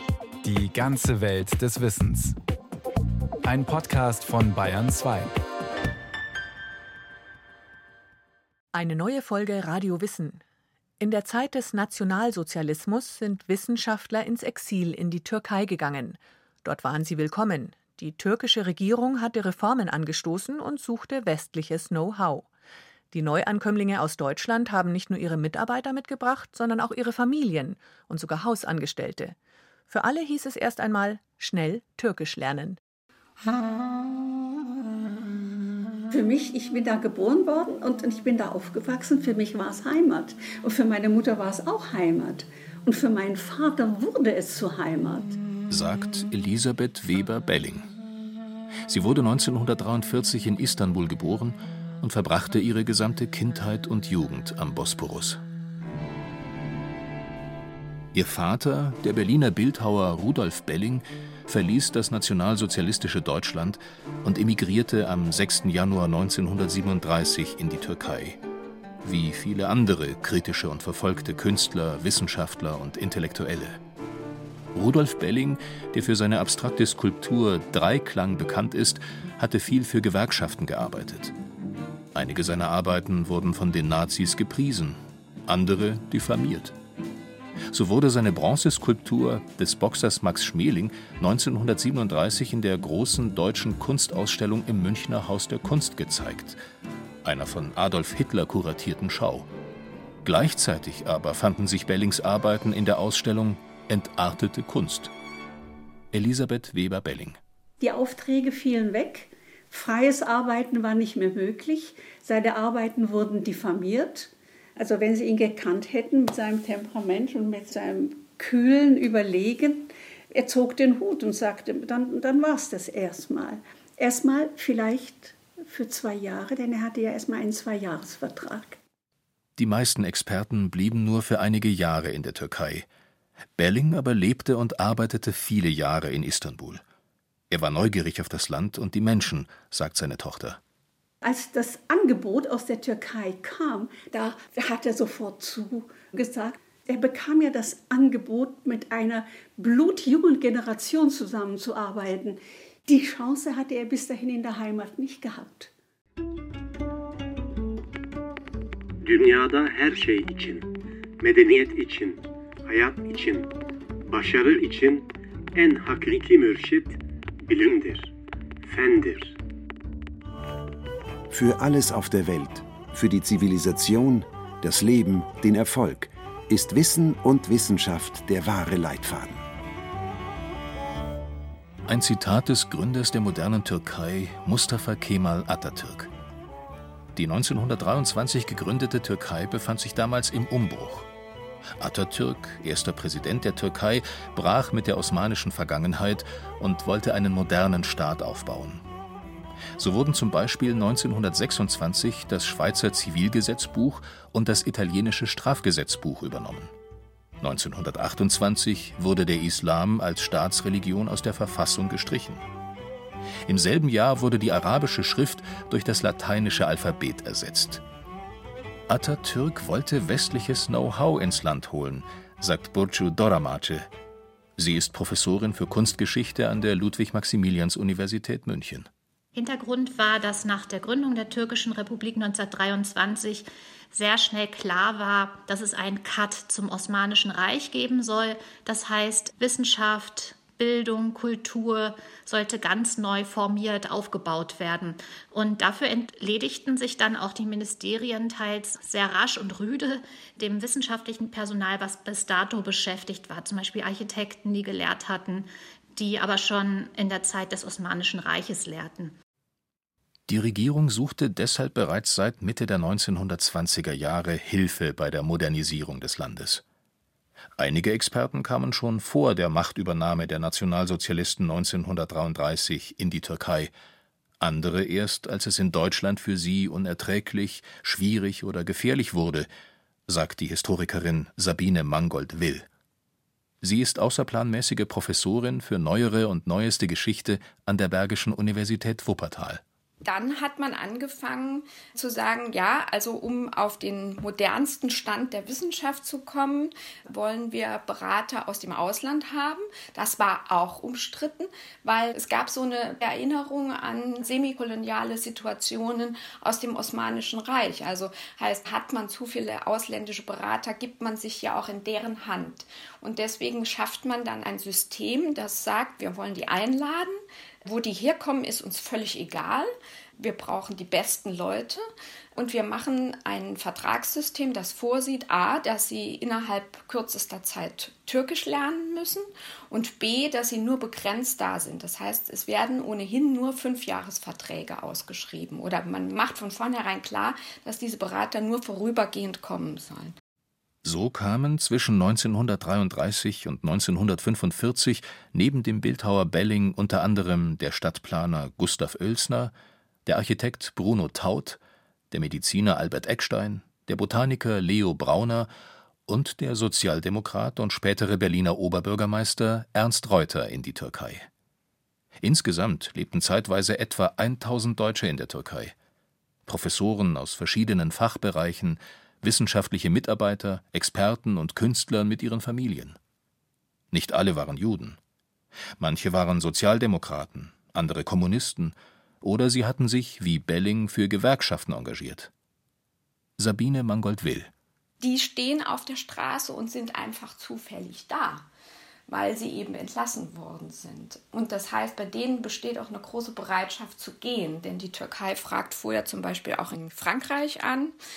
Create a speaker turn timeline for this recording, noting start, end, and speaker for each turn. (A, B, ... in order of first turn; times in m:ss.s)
0:00.4-0:02.4 A
0:03.4-0:05.4 A
0:08.7-0:10.4 B
0:11.0-0:22.5 B
0:23.1-0:29.4 B
0:29.9-0:32.8 B
0:36.1-0:45.4 C
0:45.7-0:47.9 D
0:48.9-0:55.4 D
0:58.1-1:08.4 D
1:09.0-1:13.8 D
1:14.7-1:21.3 D
1:22.2-1:26.8 D
1:27.7-1:36.6 D
1:37.2-1:39.5 D
1:40.2-1:45.1 D
1:46.1-1:47.4 D
1:47.8-2:08.8 C
2:09.6-2:12.9 D
2:13.6-2:16.8 D
2:17.5-2:20.6 D
2:21.2-2:35.7 C
2:39.0-2:43.5 E
2:44.0-2:48.1 E
2:48.6-2:49.3 E
2:51.3-2:59.4 F
3:01.9-3:06.1 D
3:07.2-3:11.1 D
3:11.8-3:18.8 D
3:19.8-3:26.7 D
3:27.4-3:32.4 D
3:33.5-3:37.8 D
3:38.9-3:43.9 D
3:44.6-3:48.9 D
3:49.4-4:19.2 G
4:20.3-4:26.6 D
4:27.6-4:33.7 D
4:34.4-4:39.5 D
4:40.1-4:42.7 D
4:43.6-4:49.6 D
4:50.0-5:21.8 H
5:22.4-5:40.2 H
5:40.8-5:49.5 D
5:50.1-5:51.6 D
5:52.1-5:55.5 D
5:56.1-6:01.3 D
6:02.2-6:05.8 D
6:06.5-6:13.0 D
6:13.9-6:15.0 D
6:15.8-6:22.3 D
6:23.4-6:24.5 D
6:25.0-6:28.5 H
6:29.1-6:37.9 H